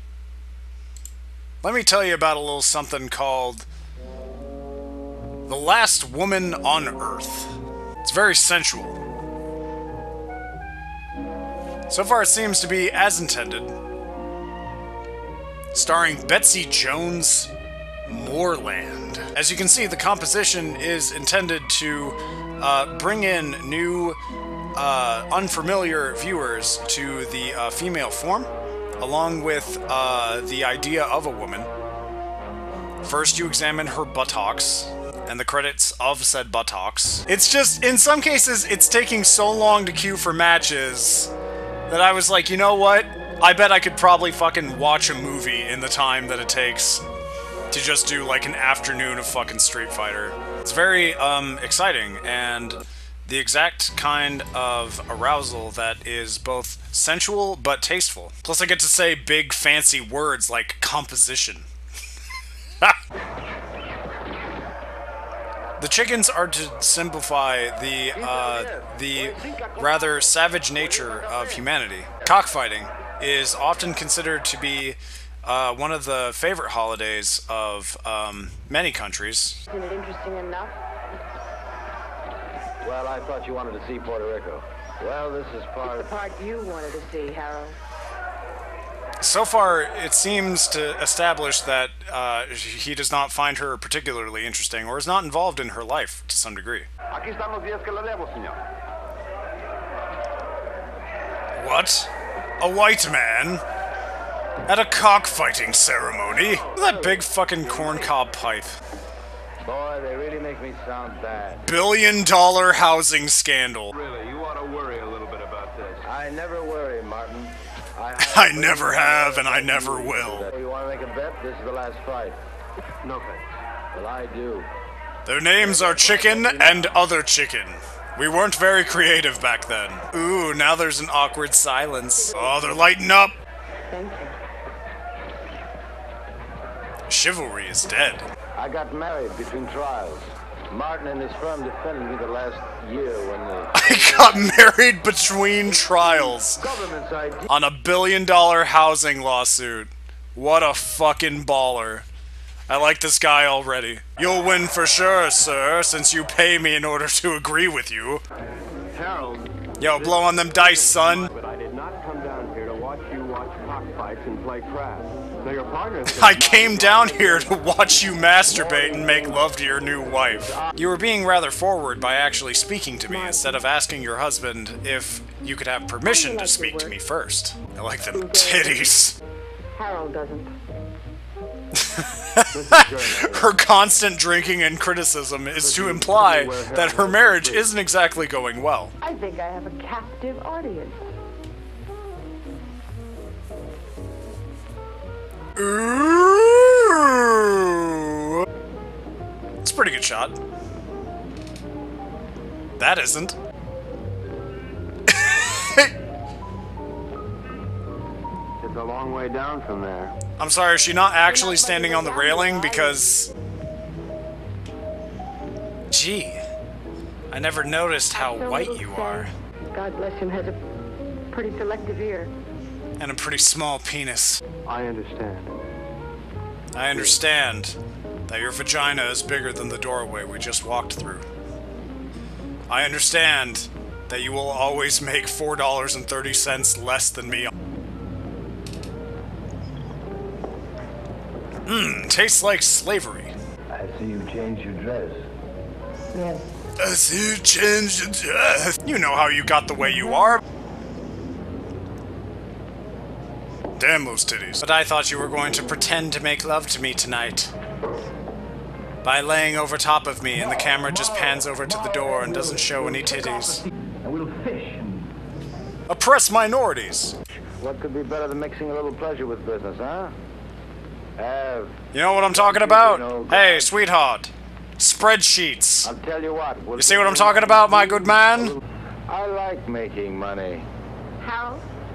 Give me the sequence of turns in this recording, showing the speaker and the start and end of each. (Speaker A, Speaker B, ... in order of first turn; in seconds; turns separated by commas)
Speaker A: 1.6-3.7, Speaker A: 5.5-9.0, Speaker A: 11.9-13.8, Speaker A: 15.7-17.5, Speaker A: 18.1-24.2, Speaker A: 24.8-31.7, Speaker A: 33.0-41.3, Speaker A: 41.9-47.0, Speaker A: 47.7-61.7, Speaker A: 65.8-79.6, Speaker B: 68.2-70.2, Speaker B: 71.0-71.6, Speaker C: 79.7-80.8, Speaker B: 82.8-86.1, Speaker C: 85.8-87.8, Speaker A: 89.2-96.9, Speaker B: 97.1-98.6, Speaker A: 101.5-103.6, Speaker A: 104.7-108.8, Speaker B: 106.3-108.1, Speaker B: 109.6-111.7, Speaker A: 111.6-114.0, Speaker D: 113.9-116.1, Speaker B: 116.0-122.4, Speaker A: 118.2-120.5, Speaker D: 123.0-123.6, Speaker B: 123.9-124.7, Speaker A: 125.2-133.3, Speaker B: 125.6-127.0, Speaker C: 132.3-132.8, Speaker C: 133.9-134.4, Speaker A: 137.1-138.3, Speaker B: 138.6-144.4, Speaker A: 143.7-146.7, Speaker B: 146.6-147.5, Speaker A: 147.5-152.1, Speaker A: 152.7-158.2, Speaker D: 158.9-167.6, Speaker A: 159.8-161.3, Speaker A: 166.1-179.2, Speaker B: 168.6-169.3, Speaker C: 173.1-173.6, Speaker C: 176.1-177.0, Speaker C: 178.1-178.9, Speaker C: 179.7-180.5, Speaker A: 181.7-188.9, Speaker D: 182.5-183.6, Speaker D: 185.6-187.7, Speaker C: 189.0-191.1, Speaker A: 195.6-198.4, Speaker A: 199.6-200.4, Speaker A: 202.8-203.4, Speaker A: 205.1-205.9, Speaker D: 208.6-210.2, Speaker A: 210.4-213.3, Speaker C: 211.3-213.1, Speaker A: 215.9-216.4, Speaker A: 217.3-219.3, Speaker C: 218.1-220.6, Speaker C: 221.3-222.3, Speaker A: 223.0-224.4, Speaker D: 224.7-225.6, Speaker A: 226.7-231.3, Speaker A: 232.7-237.5, Speaker A: 241.7-243.3, Speaker B: 243.7-245.3, Speaker A: 246.8-250.4, Speaker A: 253.8-257.5, Speaker A: 259.0-263.6, Speaker B: 264.0-265.0, Speaker A: 265.9-267.2, Speaker B: 267.6-270.1, Speaker B: 271.2-271.8, Speaker A: 271.9-275.9, Speaker B: 272.3-273.8, Speaker B: 275.8-278.5, Speaker A: 276.8-278.6, Speaker B: 279.1-280.7, Speaker C: 281.2-281.7